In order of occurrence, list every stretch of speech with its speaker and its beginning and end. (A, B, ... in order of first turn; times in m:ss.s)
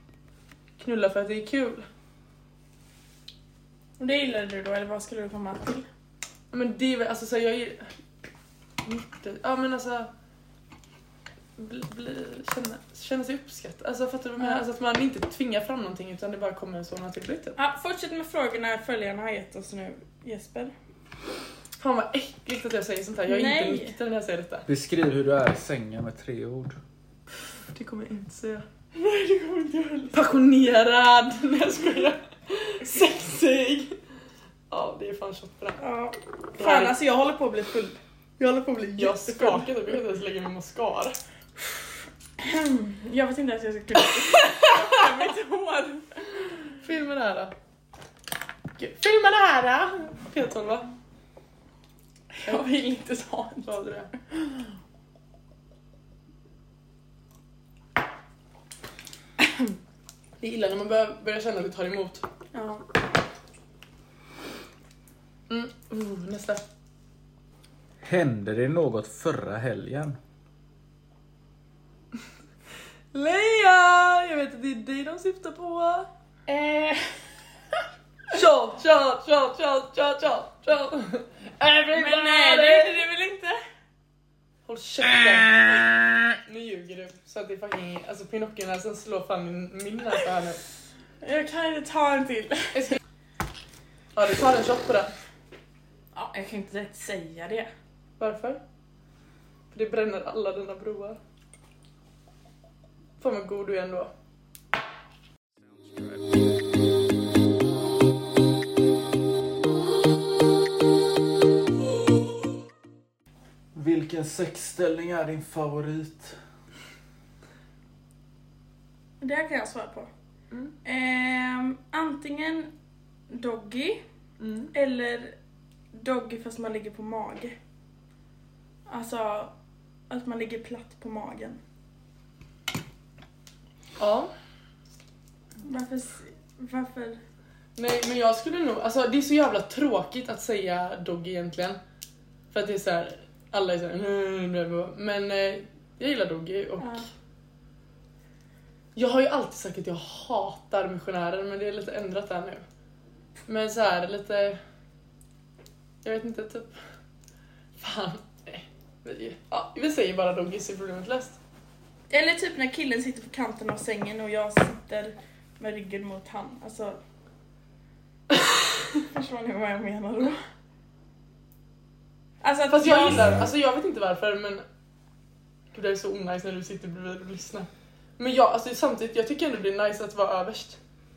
0:00.8-0:01.9 A
0:04.0-0:05.9 B
0:06.5-0:07.9 A
0:08.8-0:10.1 A
0:11.6-0:17.6 A
0:17.6-0:20.7 B
0:21.8-0:24.7 A
0:23.3-0:24.0 B
0:24.7-0:26.8 C
0:27.7-0:28.6 A
0:29.0-0:30.2 B
0:30.1-0:34.0 A
0:34.7-0:35.8 A
0:35.8-0:39.8 B
0:36.6-0:37.0 A
0:38.4-0:41.2 A
0:42.4-0:46.1 B
0:44.2-0:45.2 A
0:46.8-0:47.5 A
0:48.8-0:50.9 A
0:52.3-0:53.7 B
0:52.4-0:52.7 A
0:53.7-0:54.1 A
0:54.2-0:54.6 B
1:00.4-1:02.3 A
1:02.5-1:02.8 B
1:05.5-1:06.6 A
1:08.0-1:10.2 C
1:13.1-1:16.1 A
1:16.5-1:17.1 B
1:18.3-1:23.1 A
1:21.9-1:23.6 B
1:24.7-1:25.8 A
1:26.4-1:30.6 A
1:31.2-1:33.0 B
1:32.7-1:33.0 A
1:34.2-1:35.1 A
1:36.1-1:37.7 B
1:38.2-1:38.6 A
1:39.7-1:41.2 A
1:43.2-1:44.1 A
1:53.8-1:56.4 C
1:59.2-2:00.1 B
2:00.8-2:02.7 B
2:03.3-2:04.0 B
2:04.4-2:04.7 A
2:04.7-2:05.4 B
2:05.9-2:07.6 B
2:08.9-2:09.5 B
2:10.1-2:11.6 B
2:14.0-2:14.3 A
2:15.6-2:17.2 B
2:17.8-2:21.8 A
2:22.5-2:27.0 A
2:26.8-2:27.1 B
2:29.0-2:32.6 A
2:33.5-2:34.6 A
2:36.0-2:36.8 A
2:37.8-2:41.4 A
2:42.1-2:47.0 B
2:49.1-2:50.4 B
2:52.4-2:53.3 B
2:52.7-2:54.6 A
2:55.7-3:00.8 A